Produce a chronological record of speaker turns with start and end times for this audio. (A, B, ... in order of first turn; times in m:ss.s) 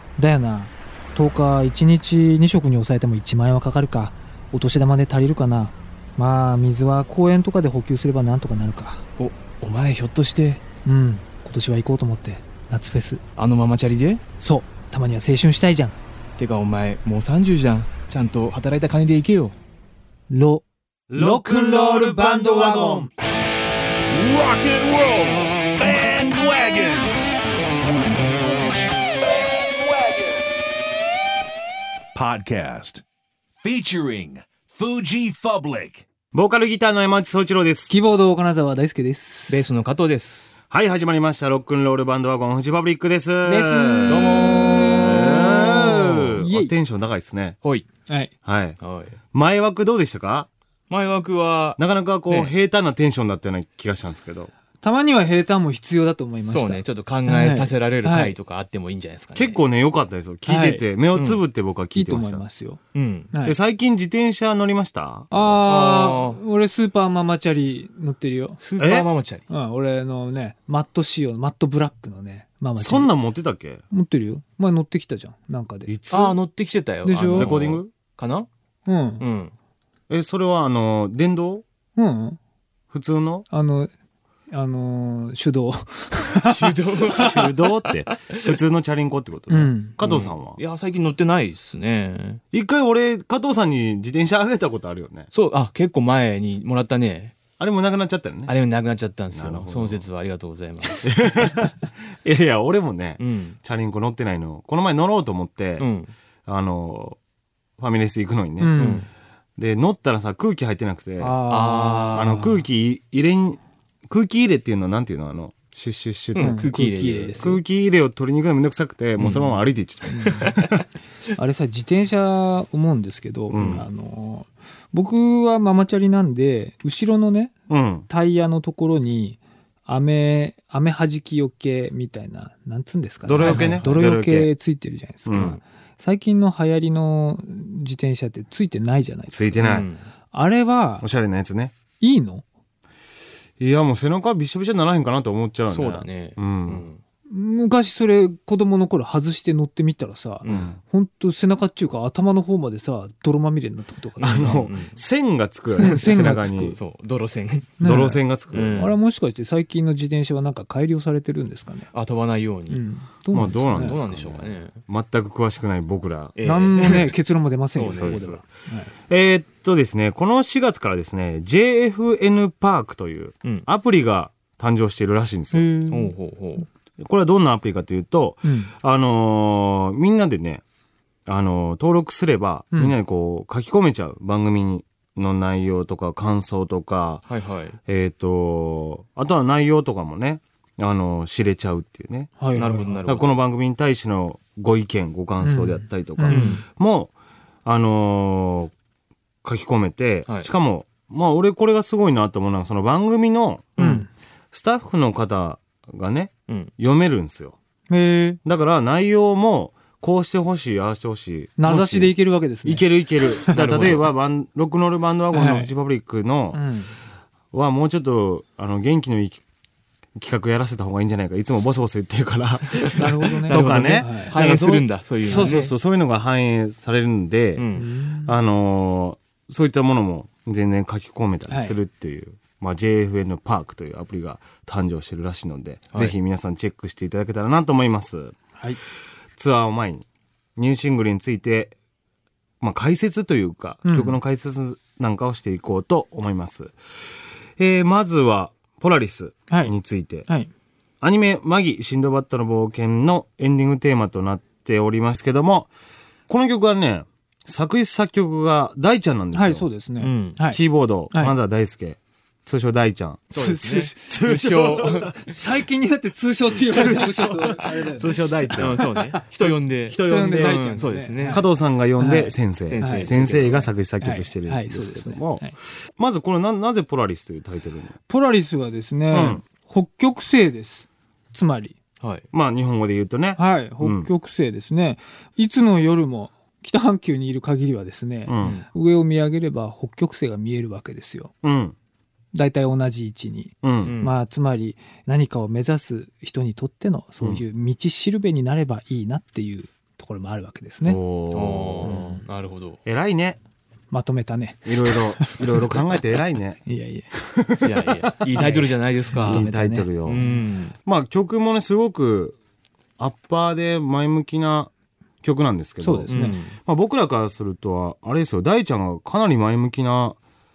0:00.2-0:09.0 A
0:09.2-0:10.6 B
0:10.8-0:13.2 A
0:13.4-0:14.2 B
0:14.4-0:16.0 A
0:16.4-0:19.5 B
0:20.3-0:20.6 A
0:21.1-0:23.1 C
0:21.1-0:23.1 A
0:24.1-0:27.2 D
0:29.2-0:30.5 D
0:32.1-0:33.0 D
0:33.6-0:36.0 D
0:36.3-0:37.9 C
0:37.9-0:39.7 A
0:39.5-0:40.6 B
0:40.7-0:47.6 C
0:43.4-0:46.8 A
0:44.1-0:45.4 B
0:48.4-0:48.8 C
0:48.8-0:49.2 B
0:49.3-0:50.5 C
0:50.9-0:52.5 B
0:51.8-0:54.5 C
0:54.8-0:58.4 A
0:56.4-0:59.6 B
0:59.3-1:02.4 C
1:00.4-1:00.8 A
1:01.1-1:01.4 B
1:01.9-1:02.8 A
1:02.9-1:03.3 B
1:03.3-1:03.6 A
1:03.4-1:05.5 C
1:05.3-1:08.6 A
1:05.6-1:06.4 B
1:08.6-1:09.4 B
1:08.8-1:09.1 C
1:09.5-1:13.1 A
1:12.8-1:13.8 C
1:13.9-1:15.9 A
1:15.9-1:16.4 C
1:16.1-1:18.5 B
1:17.0-1:17.5 A
1:17.3-1:17.9 C
1:18.8-1:19.2 A
1:19.2-1:19.5 B
1:20.1-1:21.6 C
1:22.0-1:22.4 A
1:22.9-1:23.4 C
1:23.5-1:23.9 A
1:24.5-1:26.7 A
1:26.4-1:28.4 B
1:27.1-1:30.6 C
1:29.5-1:29.9 A
1:30.0-1:32.4 B
1:32.5-1:35.3 C
1:35.3-1:37.4 B
1:37.6-1:38.5 C
1:38.5-1:41.1 B
1:39.3-1:40.0 C
1:40.8-1:45.9 C
1:43.2-1:43.6 B
1:45.8-1:46.1 B
1:46.4-1:47.2 C
1:47.8-1:49.0 C
1:48.6-1:49.1 A
1:48.8-1:49.1 B
1:49.6-1:51.4 C
1:51.2-1:52.6 A
1:51.5-1:52.4 B
1:52.1-1:56.6 C
1:56.3-1:57.4 B
1:56.4-1:57.6 A
1:57.4-2:00.8 C
1:59.2-1:59.6 B
2:00.1-2:00.5 A
2:01.3-2:07.6 A
2:03.5-2:03.8 C
2:03.6-2:03.8 B
2:07.7-2:08.1 C
2:08.1-2:21.0 A
2:13.2-2:14.5 C
2:13.4-2:13.9 B
2:15.2-2:15.6 C
2:15.3-2:15.6 B
2:19.3-2:19.9 C
2:19.6-2:20.0 B
2:21.0-2:21.7 C
2:22.0-2:22.4 A
2:23.6-2:26.9 C
2:25.6-2:27.0 B
2:27.3-2:34.6 A
2:30.4-2:30.7 B
2:30.5-2:30.8 C
2:34.2-2:35.0 B
2:34.2-2:36.8 C
2:35.8-2:36.8 A
2:36.8-2:38.9 B
2:37.8-2:41.9 A
2:37.8-2:38.9 C
2:41.9-2:42.8 B
2:42.7-2:44.0 A
2:43.3-2:46.3 C
2:43.5-2:44.8 B
2:46.4-2:47.1 B
2:46.4-2:48.9 A
2:47.7-2:48.3 B
2:47.8-2:48.5 C
2:49.1-2:55.7 C
2:55.5-2:56.1 A
2:55.9-2:56.7 B
2:57.0-3:00.6 C
2:58.4-2:58.7 A
3:01.2-3:07.2 C
3:07.3-3:07.8 B
3:07.9-3:17.1 C
3:12.4-3:13.0 A
3:12.6-3:13.3 B
3:15.4-3:16.6 A
3:16.3-3:16.6 B
3:17.6-3:18.7 C
3:19.4-3:23.7 C
3:23.8-3:24.1 B
3:23.8-3:24.1 A
3:24.5-3:27.5 C
3:27.9-3:28.4 A
3:28.4-3:36.6 C
3:31.6-3:34.0 A
3:33.5-3:34.1 B
3:35.3-3:35.7 A
3:36.5-3:36.9 A
3:37.5-3:39.4 C
3:40.2-3:47.7 C
3:42.8-3:45.7 B
3:42.9-3:44.4 A
3:45.2-3:45.7 A
3:47.6-3:47.9 B
3:47.7-3:48.3 A
3:48.2-3:58.4 C
3:51.5-3:51.8 A
3:59.4-4:00.0 C
4:00.6-4:01.7 C
4:02.6-4:06.7 C
4:03.8-4:04.2 A
4:07.6-4:10.3 C
4:11.0-4:15.7 C
4:16.3-4:19.7 C
4:19.3-4:21.3 A
4:20.0-4:20.4 B
4:20.5-4:25.1 C
4:23.3-4:25.4 B
4:23.3-4:24.0 A
4:25.4-4:28.8 A
4:26.7-4:37.9 C
4:28.5-4:31.4 B
4:29.9-4:31.4 A
4:32.0-4:33.4 A
4:32.7-4:33.7 B
4:34.0-4:35.5 A
4:38.1-4:41.8 A
4:39.1-4:39.4 C
4:42.3-4:44.1 C
4:43.4-4:51.3 A
4:48.2-4:48.6 C
4:51.4-4:51.7 C
4:52.3-5:01.0 A
4:53.6-4:53.9 C
4:53.8-4:54.1 B
5:00.8-5:02.0 C
5:01.3-5:02.8 B
5:01.8-5:02.2 A
5:02.8-5:03.4 C
5:03.9-5:05.7 A
5:04.6-5:06.6 C
5:06.6-5:10.4 A
5:07.6-5:09.4 B
5:09.2-5:10.2 C
5:10.0-5:10.7 B
5:10.8-5:12.4 C
5:13.0-5:14.7 C
5:15.2-5:20.2 C
5:15.8-5:16.4 A
5:16.1-5:16.6 B